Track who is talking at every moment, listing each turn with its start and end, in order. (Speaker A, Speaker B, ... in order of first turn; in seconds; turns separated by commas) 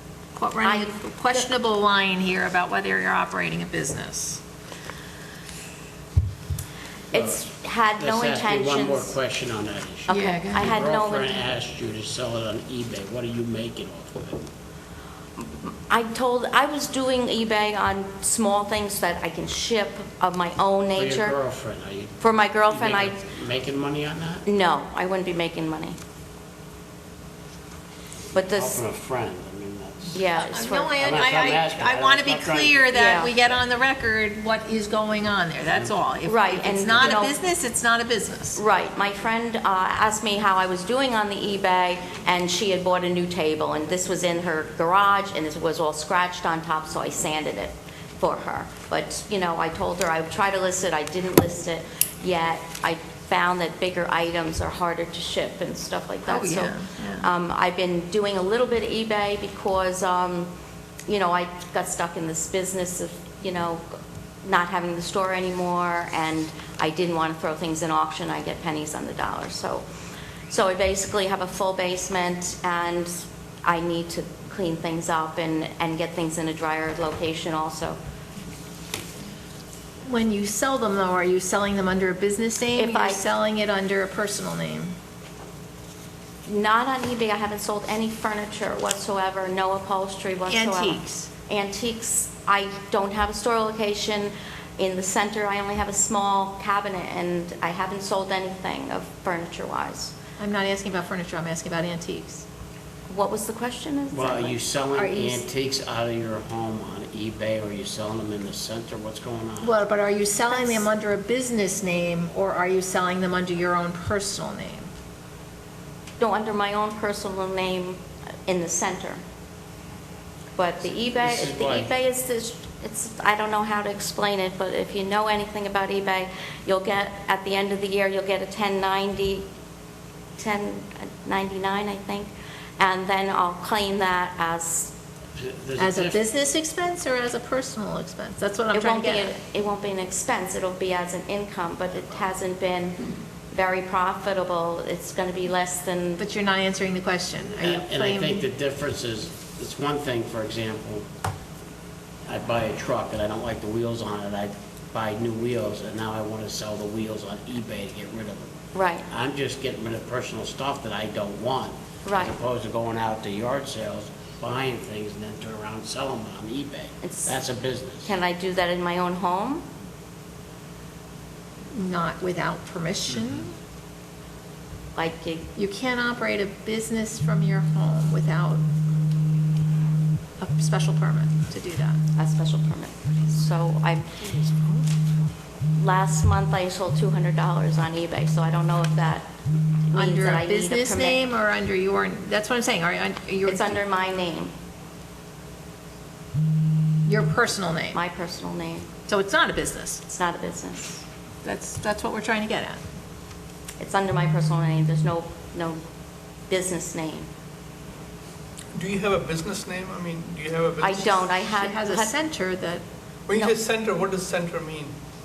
Speaker A: 0.3-4.4, Speaker B: 0.6-1.5, Speaker C: 7.1-7.4, Speaker B: 7.1-9.2, Speaker C: 8.0-14.5, Speaker A: 10.1-10.8, Speaker B: 10.1-11.5, Speaker B: 15.4-21.4, Speaker C: 20.9-24.4, Speaker B: 22.2-23.2, Speaker B: 24.4-26.0, Speaker B: 28.3-28.8, Speaker C: 28.4-30.2, Speaker B: 30.1-31.4, Speaker A: 30.4-38.6, Speaker C: 31.0-32.9, Speaker B: 32.9-33.3, Speaker B: 36.2-37.4, Speaker B: 38.5-60.5, Speaker A: 56.3-57.3, Speaker B: 61.1-63.8, Speaker B: 64.4-69.8, Speaker B: 70.5-78.0, Speaker A: 80.1-85.0, Speaker B: 82.8-83.2, Speaker B: 86.5-100.1, Speaker A: 90.5-91.3, Speaker A: 100.4-102.5, Speaker B: 103.1-104.6, Speaker C: 104.1-109.8, Speaker A: 105.0-105.4, Speaker A: 109.6-114.9, Speaker B: 110.5-110.8, Speaker B: 116.2-119.2, Speaker B: 120.6-129.5, Speaker C: 121.2-121.9, Speaker B: 130.4-134.9, Speaker C: 135.3-136.2, Speaker A: 135.8-139.3, Speaker B: 138.7-146.2, Speaker A: 146.2-148.5, Speaker C: 147.6-151.1, Speaker C: 152.3-158.5, Speaker B: 158.7-159.1, Speaker C: 159.1-168.1, Speaker B: 162.1-162.3, Speaker B: 167.0-167.4, Speaker B: 168.0-169.6, Speaker A: 171.7-173.6, Speaker B: 174.9-175.5, Speaker A: 175.6-178.7, Speaker A: 180.4-182.0, Speaker B: 182.2-184.4, Speaker B: 185.8-189.3, Speaker B: 189.9-191.2, Speaker A: 189.9-193.8, Speaker B: 193.5-194.5, Speaker A: 197.1-198.0, Speaker B: 197.9-198.9, Speaker A: 199.1-200.0, Speaker B: 200.1-201.0, Speaker A: 201.4-202.8, Speaker B: 203.8-205.8, Speaker B: 206.5-207.3, Speaker D: 208.8-211.4, Speaker B: 210.8-212.1, Speaker A: 211.5-212.8, Speaker D: 213.3-214.9